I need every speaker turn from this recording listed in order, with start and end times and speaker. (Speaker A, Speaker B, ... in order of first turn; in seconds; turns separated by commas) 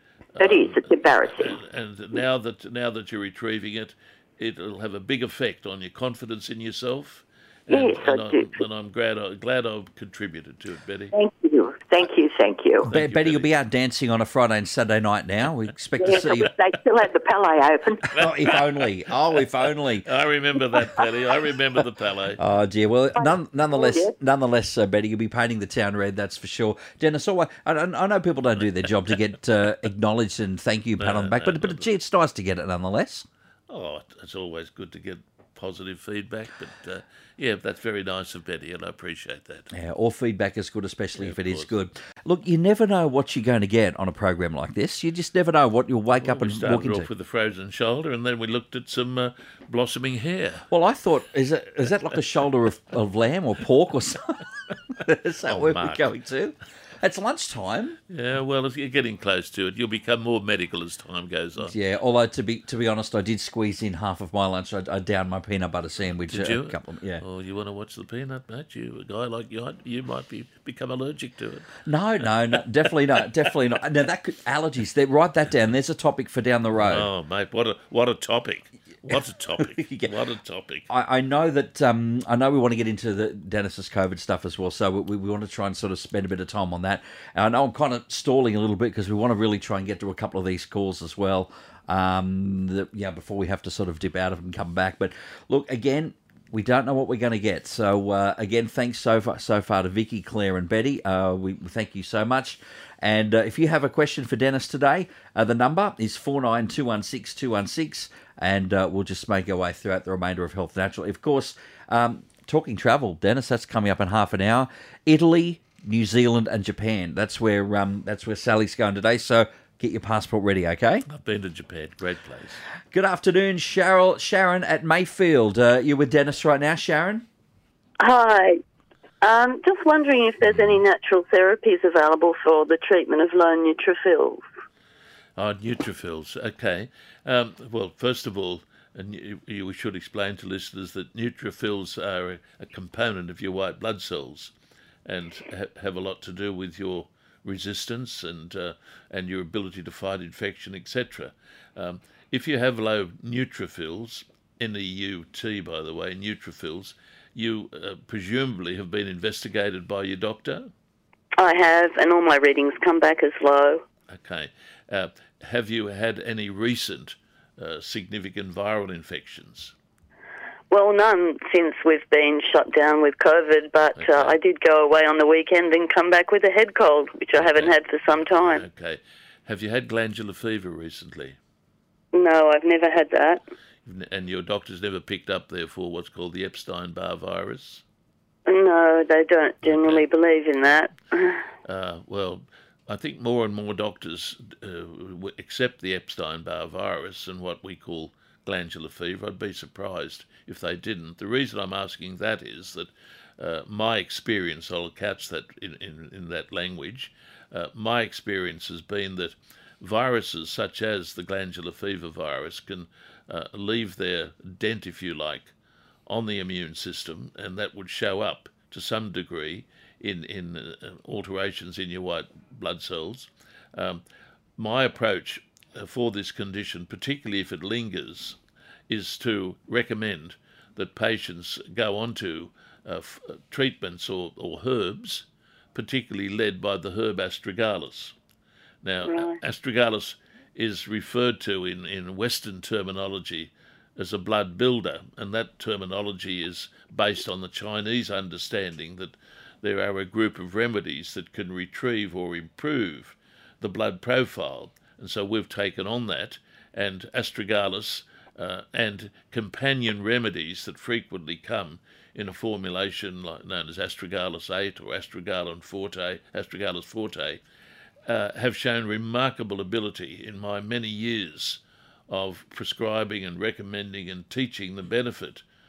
Speaker A: 0.4-11.1, Speaker B: 0.4-1.6, Speaker B: 7.7-8.6, Speaker B: 11.1-12.9, Speaker A: 12.8-13.5, Speaker C: 12.9-16.5, Speaker B: 16.0-18.1, Speaker C: 18.1-20.1, Speaker A: 18.2-18.9, Speaker A: 20.0-22.4, Speaker C: 22.4-33.2, Speaker B: 23.1-24.1, Speaker A: 31.0-31.9, Speaker A: 33.7-39.7, Speaker C: 39.7-47.1, Speaker A: 41.2-41.7, Speaker A: 46.2-50.7, Speaker C: 50.7-54.4, Speaker C: 55.0-58.0, Speaker A: 55.4-56.1, Speaker A: 58.1-61.7, Speaker C: 61.6-67.2, Speaker A: 66.2-72.9, Speaker C: 71.8-77.1, Speaker A: 76.8-80.9, Speaker C: 79.6-80.1, Speaker C: 80.9-121.0, Speaker A: 121.1-122.6, Speaker C: 122.9-127.2, Speaker D: 128.0-128.6, Speaker D: 129.2-134.4, Speaker A: 130.4-130.8, Speaker A: 135.3-144.5, Speaker A: 145.0-160.7, Speaker D: 161.4-163.8, Speaker A: 164.1-169.7, Speaker D: 170.7-178.6, Speaker A: 173.9-174.4, Speaker A: 177.3-181.4, Speaker D: 182.1-183.4, Speaker A: 183.8-187.8, Speaker D: 188.5-191.4, Speaker A: 189.6-190.1, Speaker A: 191.6-215.5, Speaker A: 216.1-224.0, Speaker A: 224.6-228.4, Speaker A: 228.9-238.1, Speaker A: 238.8-267.4, Speaker A: 268.1-275.4